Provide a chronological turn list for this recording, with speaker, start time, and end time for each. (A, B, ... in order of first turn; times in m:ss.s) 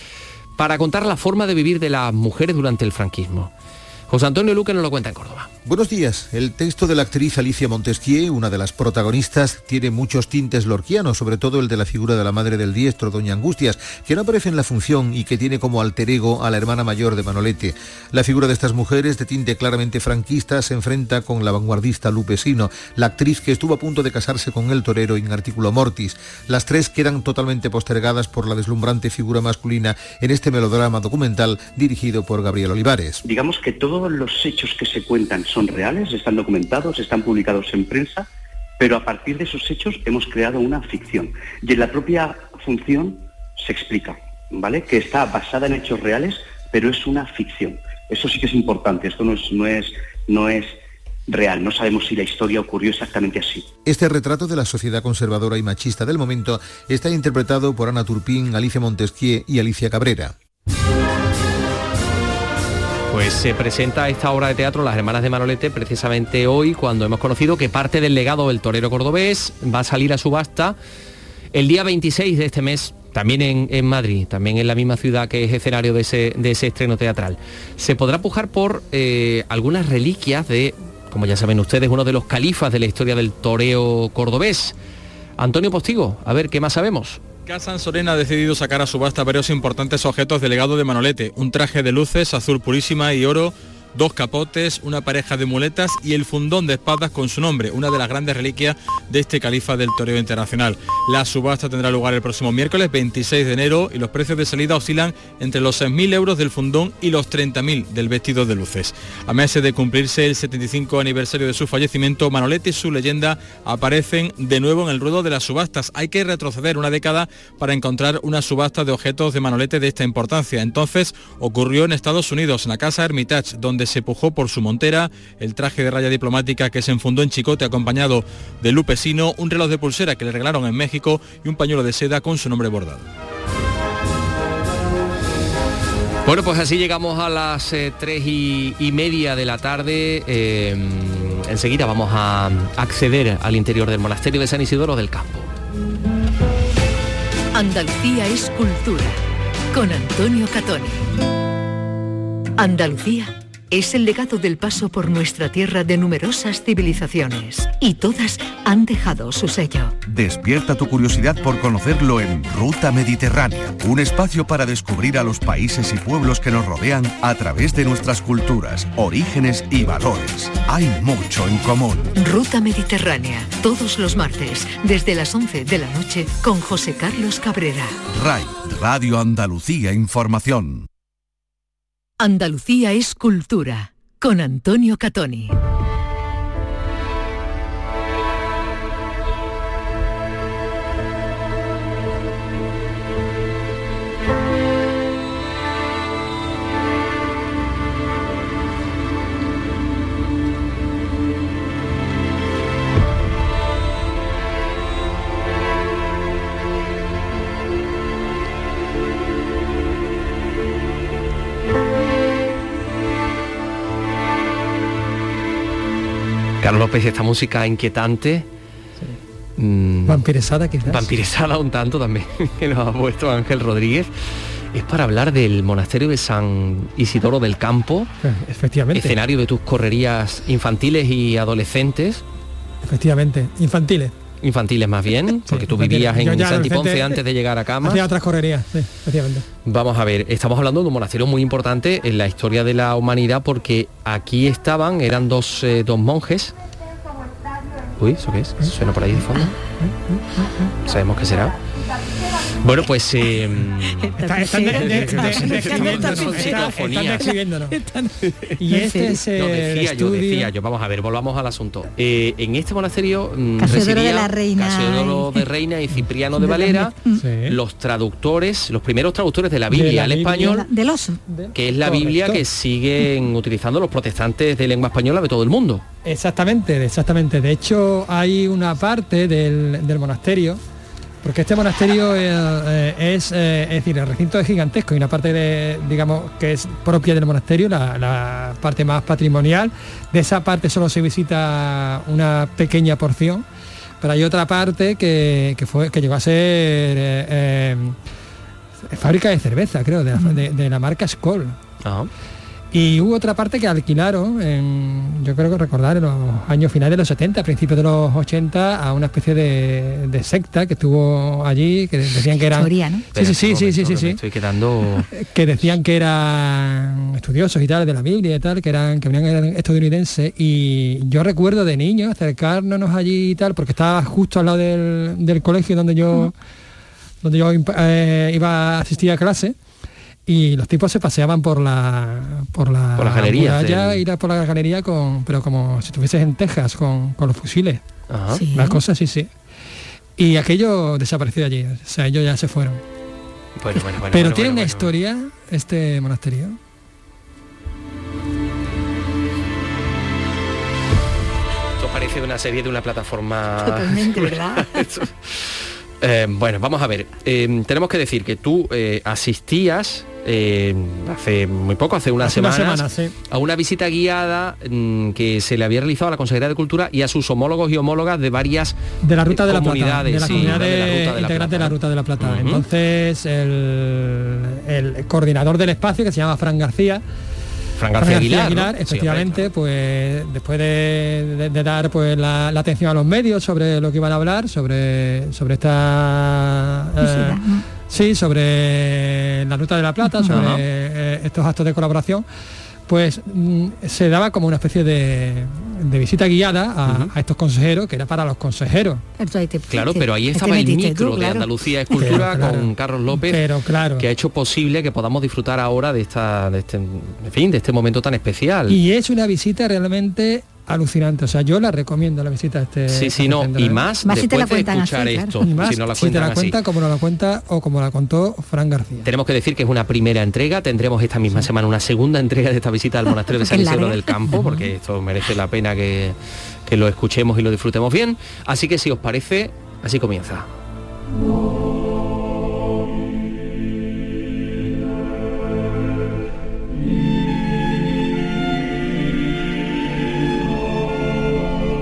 0:00.6-0:03.5 A
0:04.1-0:05.5 A
0:05.7-0:33.2 B
0:33.3-0:53.7 C
0:53.8-1:00.4 B
1:03.1-1:10.8 A
1:11.5-1:24.8 A
1:25.4-1:27.2 A
1:27.5-2:13.1 D
2:16.2-2:25.5 A
2:27.5-2:29.2 E
2:29.7-2:31.0 E
2:32.6-2:40.0 E
2:40.1-2:52.1 F
2:52.2-2:58.0 E
2:58.1-3:00.9 F
3:02.2-3:05.6 E
3:36.6-3:38.5 A
3:39.6-3:40.2 A
3:40.1-3:41.1 G
3:40.8-3:44.1 A
3:44.7-3:48.1 A
3:48.2-3:49.2 G
3:48.9-3:52.2 A
3:52.9-3:54.1 G
3:54.4-3:58.0 A
3:55.5-3:57.2 G
3:57.8-3:59.5 G
3:59.7-4:06.5 A
4:08.0-4:09.5 A
4:10.8-4:11.6 A
4:12.6-4:17.3 A
4:14.0-4:16.6 H
4:14.2-4:17.8 G
4:17.7-4:18.1 H
4:18.6-4:20.5 G
4:18.7-4:19.1 H
4:19.2-4:27.0 A
4:23.6-4:25.5 H
4:26.4-4:27.2 H
4:27.2-4:27.6 G
4:27.5-4:30.6 A
4:29.7-4:30.6 G
4:30.4-4:31.2 H
4:31.3-4:32.4 G
4:31.6-4:35.8 A
4:36.0-4:40.6 G
4:41.2-4:53.4 G
4:54.0-4:58.0 G
4:58.9-5:01.6 G
5:01.8-5:02.1 A
5:02.7-5:14.2 G
5:12.2-5:13.1 H
5:13.1-5:15.1 A
5:15.1-5:26.3 G
5:27.2-5:29.6 G
5:30.3-5:37.8 G
5:33.0-5:34.0 A
5:38.1-5:38.4 A
5:38.3-5:38.8 H
5:38.5-5:39.3 G
5:40.2-5:42.8 G
5:43.6-5:44.9 A
5:43.8-5:46.6 G
5:51.8-5:55.5 A
5:53.6-5:54.9 H
5:56.0-6:08.8 A
6:02.2-6:03.1 G
6:09.0-6:17.0 G
6:09.3-6:12.6 A
6:17.8-6:19.5 A
6:18.0-6:32.2 G
6:27.0-6:27.7 H
6:30.0-6:30.5 H
6:30.3-6:30.6 A
6:32.9-6:39.0 G
6:36.9-6:37.1 A
6:39.2-6:42.2 H
6:39.7-6:43.4 A
6:42.0-6:44.1 G
6:44.0-6:48.8 A
6:48.7-6:53.8 G
6:52.9-6:56.6 A
6:54.0-6:55.4 H
6:55.4-6:59.1 G
6:59.0-7:06.2 A
7:03.1-7:04.6 H
7:04.3-7:04.6 G
7:06.7-7:10.5 A